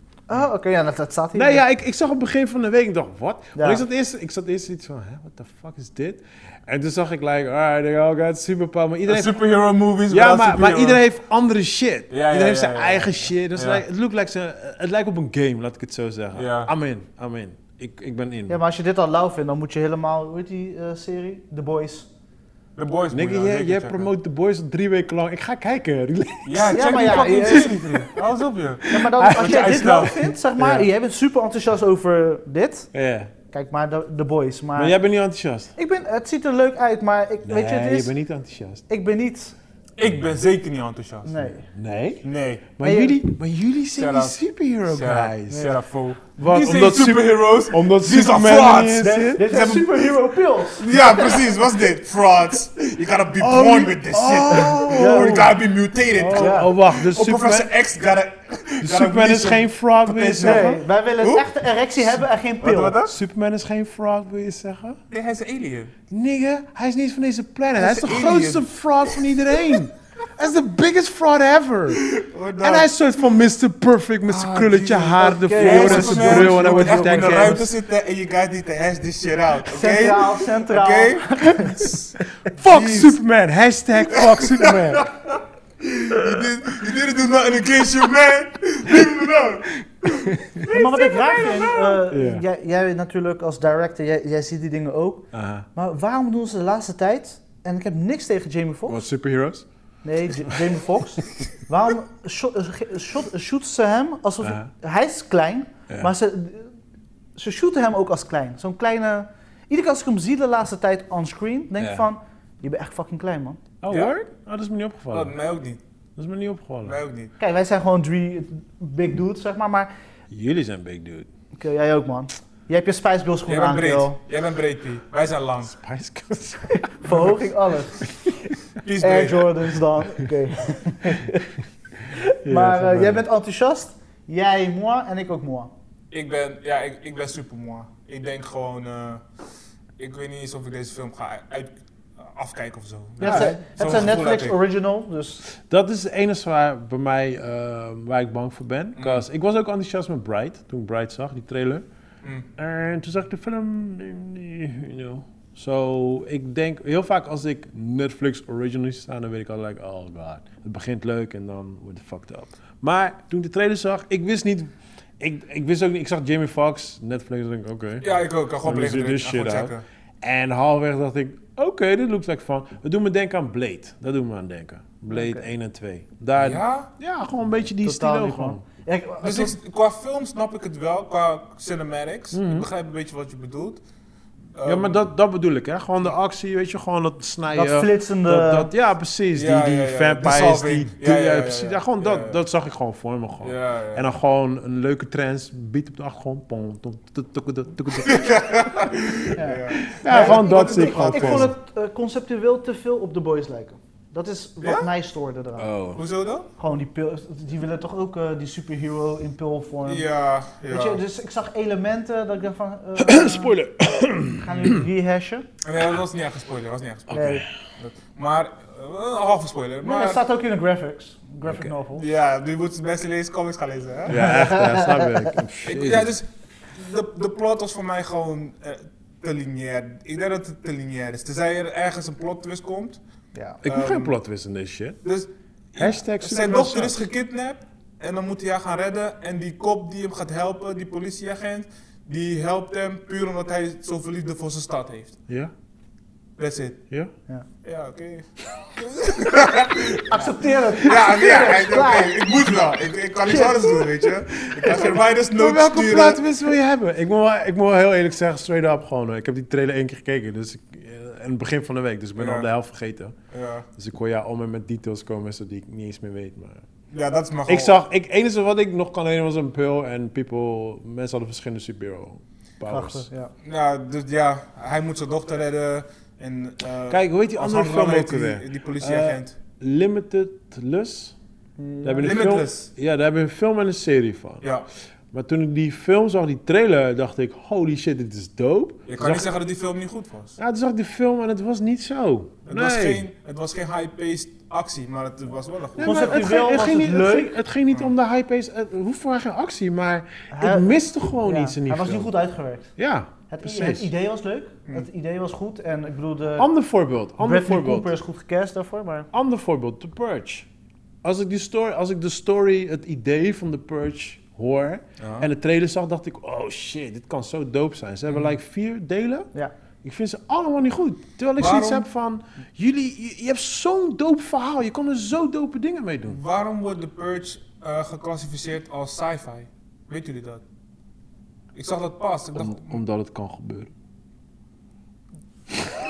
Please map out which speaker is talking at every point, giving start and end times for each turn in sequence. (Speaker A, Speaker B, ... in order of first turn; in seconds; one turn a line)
Speaker A: 0.3-1.6
Speaker B: 1.4-9.4
Speaker A: 3.6-3.8
Speaker C: 9.1-11.0
Speaker B: 10.1-18.6
Speaker C: 12.1-13.8
Speaker C: 16.4-16.7
Speaker A: 18.5-22.1
Speaker C: 22.8-24.1
Speaker B: 23.1-28.1
Speaker C: 26.4-30.3
Speaker A: 26.6-27.9
Speaker B: 28.8-30.9
Speaker A: 28.9-32.9
Speaker B: 32.9-33.3
Speaker A: 33.5-35.0
Speaker B: 34.8-35.7
Speaker A: 35.8-38.1
Speaker B: 37.5-38.8
Speaker A: 38.9-39.6
Speaker C: 40.0-41.4
Speaker A: 41.2-41.6
Speaker B: 41.6-45.8
Speaker C: 42.2-42.7
Speaker A: 42.8-43.2
Speaker C: 44.0-49.9
Speaker B: 46.4-49.5
Speaker A: 49.0-51.4
Speaker C: 50.8-63.1
Speaker B: 53.4-55.6
Speaker A: 54.5-55.5
Speaker B: 56.1-57.7
Speaker A: 56.2-56.7
Speaker B: 58.8-60.8
Speaker A: 60.4-63.0
Speaker B: 63.0-65.0
Speaker C: 65.1-65.9
Speaker B: 66.1-77.7
Speaker C: 67.7-69.8
Speaker C: 72.0-72.9
Speaker C: 74.3-83.2
Speaker A: 75.2-77.7
Speaker A: 79.7-81.8
Speaker B: 82.5-85.1
Speaker C: 84.1-91.7
Speaker B: 86.2-86.5
Speaker B: 88.9-89.2
Speaker B: 90.0-92.5
Speaker A: 90.7-99.0
Speaker B: 95.3-95.7
Speaker B: 98.9-99.7
Speaker A: 100.0-106.7
Speaker B: 100.4-100.7
Speaker B: 104.4-104.7
Speaker A: 107.4-113.6
Speaker B: 111.8-112.1
Speaker B: 113.8-115.3
Speaker C: 113.9-114.2
Speaker C: 115.1-115.8
Speaker B: 116.2-117.0
Speaker C: 116.8-117.3
Speaker A: 117.4-119.9
Speaker B: 120.3-121.3
Speaker A: 121.6-124.2
Speaker C: 123.5-125.8
Speaker B: 125.7-127.5
Speaker A: 127.0-128.1
Speaker B: 128.0-128.5
Speaker C: 128.8-129.7
Speaker A: 129.0-135.7
Speaker B: 132.4-133.2
Speaker C: 136.1-139.2
Speaker C: 140.0-144.6
Speaker B: 143.2-144.1
Speaker A: 143.2-145.4
Speaker B: 145.5-151.8
Speaker C: 149.0-149.2
Speaker B: 152.6-178.6
Speaker C: 168.0-169.8
Speaker A: 175.1-175.5
Speaker C: 176.4-176.9
Speaker A: 177.8-179.6
Speaker C: 179.2-183.8
Speaker B: 182.3-182.7
Speaker C: 184.6-185.0
Speaker B: 184.7-198.8
Speaker A: 187.5-188.7
Speaker C: 189.3-192.4
Speaker C: 193.4-194.1
Speaker C: 198.0-201.5
Speaker A: 199.3-205.7
Speaker B: 199.8-201.5
Speaker C: 204.6-204.9
Speaker B: 205.6-206.0
Speaker C: 205.9-206.5
Speaker A: 206.6-210.1
Speaker C: 209.9-211.0
Speaker A: 210.7-213.6
Speaker B: 213.0-214.8
Speaker A: 214.4-215.5
Speaker C: 215.6-220.2
Speaker B: 217.1-217.4
Speaker A: 217.1-217.4
Speaker A: 219.8-222.1
Speaker C: 221.9-224.3
Speaker B: 224.1-226.1
Speaker A: 224.1-225.3
Speaker C: 225.6-233.0
Speaker A: 233.3-233.6
Speaker C: 233.6-234.1
Speaker B: 233.6-235.0
Speaker C: 235.0-245.2
Speaker B: 235.8-236.9
Speaker B: 245.3-245.5
Speaker C: 246.4-246.8
Speaker C: 247.6-256.2
Speaker A: 250.1-252.3
Speaker A: 253.3-254.0
Speaker B: 254.4-263.1
Speaker C: 262.2-262.5
Speaker C: 263.3-263.7
Speaker B: 263.8-266.6
Speaker C: 266.9-267.8
Speaker B: 267.5-273.1
Speaker A: 272.7-273.3
Speaker C: 273.4-279.3
Speaker B: 276.9-281.2
Speaker A: 281.6-282.3
Speaker B: 281.8-284.5
Speaker C: 282.0-282.7
Speaker B: 285.1-289.3
Speaker C: 288.9-290.4
Speaker B: 290.4-293.1
Speaker C: 292.5-296.2
Speaker B: 295.8-302.1
Speaker A: 295.8-297.4
Speaker A: 300.3-302.7
Speaker B: 302.8-303.9
Speaker A: 303.3-306.5
Speaker B: 306.4-307.9
Speaker A: 307.2-309.1
Speaker B: 309.1-310.5
Speaker B: 311.0-319.3
Speaker C: 315.0-315.3
Speaker B: 319.8-326.2
Speaker C: 321.4-321.8
Speaker C: 326.1-330.4
Speaker C: 331.5-332.8
Speaker B: 332.4-333.7